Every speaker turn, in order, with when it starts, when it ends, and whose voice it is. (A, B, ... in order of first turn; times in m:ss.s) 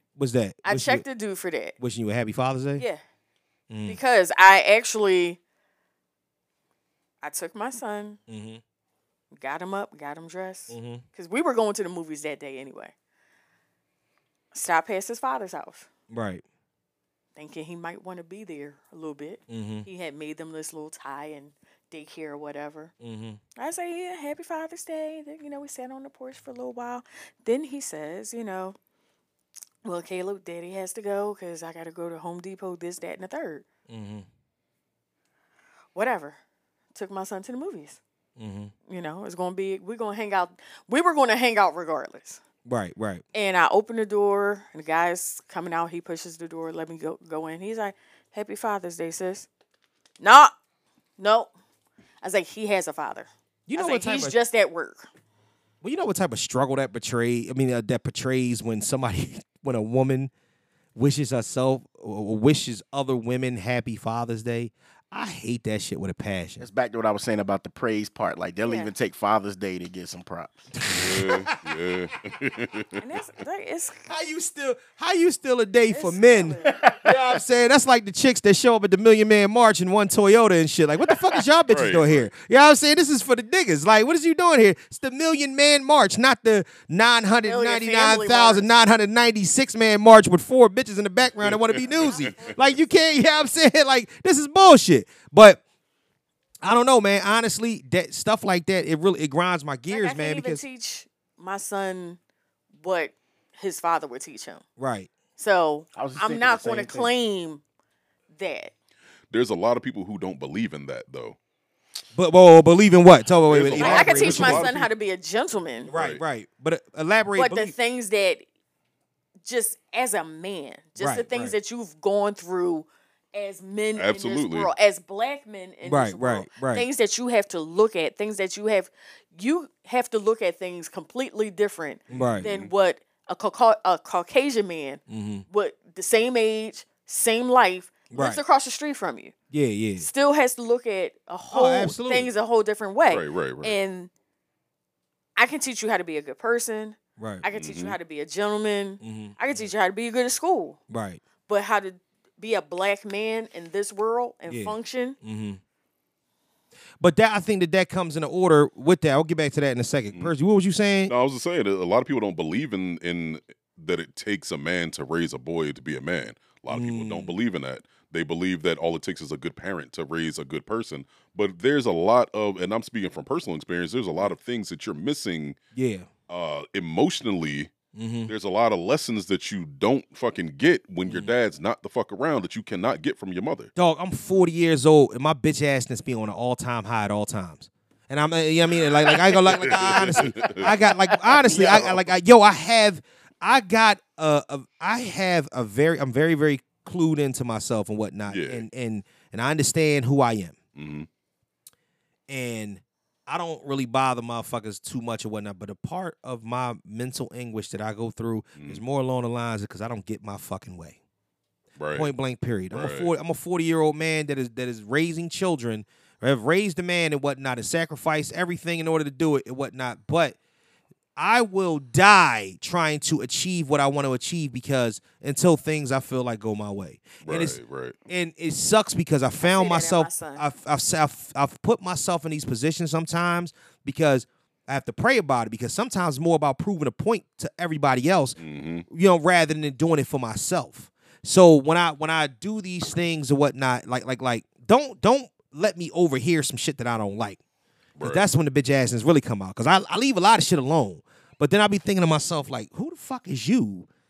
0:00.2-0:01.0 A
0:00.6-0:01.8 B
0:01.8-0:02.8 A
0:03.7-0:04.0 A
0:03.9-0:05.4 B
0:07.2-0:08.2 B
0:08.3-0:08.6 A
0:09.3-0:12.9 B
0:10.7-0:11.0 A
0:14.5-0:15.9 B
0:16.1-0:16.4 A
0:17.4-0:22.9 B
0:19.5-0:19.9 A
0:23.0-0:23.4 A
0:23.6-0:28.7 B
0:29.8-0:33.6 B
0:33.9-0:34.3 A
0:35.9-0:36.4 B
0:36.9-0:38.0 B
0:38.4-0:38.7 A
0:38.9-0:42.4 B
0:42.6-0:43.2 A
0:43.3-0:49.5 B
0:50.2-0:50.5 B
0:51.2-0:51.5 B
0:52.2-0:55.1 B
0:53.7-0:54.4 A
0:55.8-1:00.3 A
1:01.0-1:06.6 A
1:06.6-1:10.7 C
1:08.6-1:08.9 B
1:10.8-1:11.6 A
1:10.9-1:13.1 D
1:13.0-1:14.0 B
1:14.1-1:35.6 A
1:15.9-1:16.8 B
1:21.7-1:22.3 D
1:27.4-1:28.6 B
1:31.4-1:32.6 D
1:32.0-1:32.6 B
1:36.6-1:40.6 A
1:39.9-1:42.2 B
1:42.8-1:44.6 B
1:44.8-1:45.1 A
1:45.4-1:47.6 B
1:45.9-1:47.1 C
1:48.3-1:48.7 B
1:49.3-1:51.4 D
1:52.1-1:54.9 A
1:53.4-1:54.9 D
1:53.7-1:55.9 B
1:55.9-1:57.7 A
1:55.9-1:56.2 D
1:57.4-1:58.4 B
1:59.4-2:19.3 B
2:01.0-2:01.6 A
2:04.0-2:04.7 D
2:05.8-2:06.9 A
2:12.1-2:12.5 A
2:12.1-2:12.7 D
2:15.1-2:15.4 A
2:18.1-2:18.4 A
2:19.5-2:20.1 A
2:20.0-2:24.1 B
2:21.5-2:22.3 A
2:23.1-2:23.8 D
2:25.4-2:30.8 B
2:27.2-2:27.4 A
2:27.5-2:28.0 D
2:29.0-2:29.6 A
2:30.9-2:31.2 A
2:31.5-2:35.2 B
2:34.5-2:35.6 A
2:37.0-2:41.1 A
2:41.1-2:55.6 D
2:46.7-2:47.3 A
2:55.7-2:56.1 A
2:56.3-2:57.7 D
2:57.9-2:58.3 A
2:58.3-3:03.7 D
3:01.0-3:01.4 A
3:03.8-3:20.6 A
3:09.1-3:10.8 D
3:11.4-3:12.0 C
3:18.3-3:18.6 D
3:20.7-3:21.1 D
3:22.3-3:31.0 A
3:28.6-3:28.8 D
3:31.8-3:32.1 D
3:31.9-3:40.4 A
3:32.7-3:33.1 D
3:41.2-3:58.4 A
3:47.2-3:48.0 D
3:49.4-3:50.5 B
3:58.4-3:58.9 D
3:58.9-4:07.4 A
4:08.0-4:08.3 D
4:08.0-4:13.9 A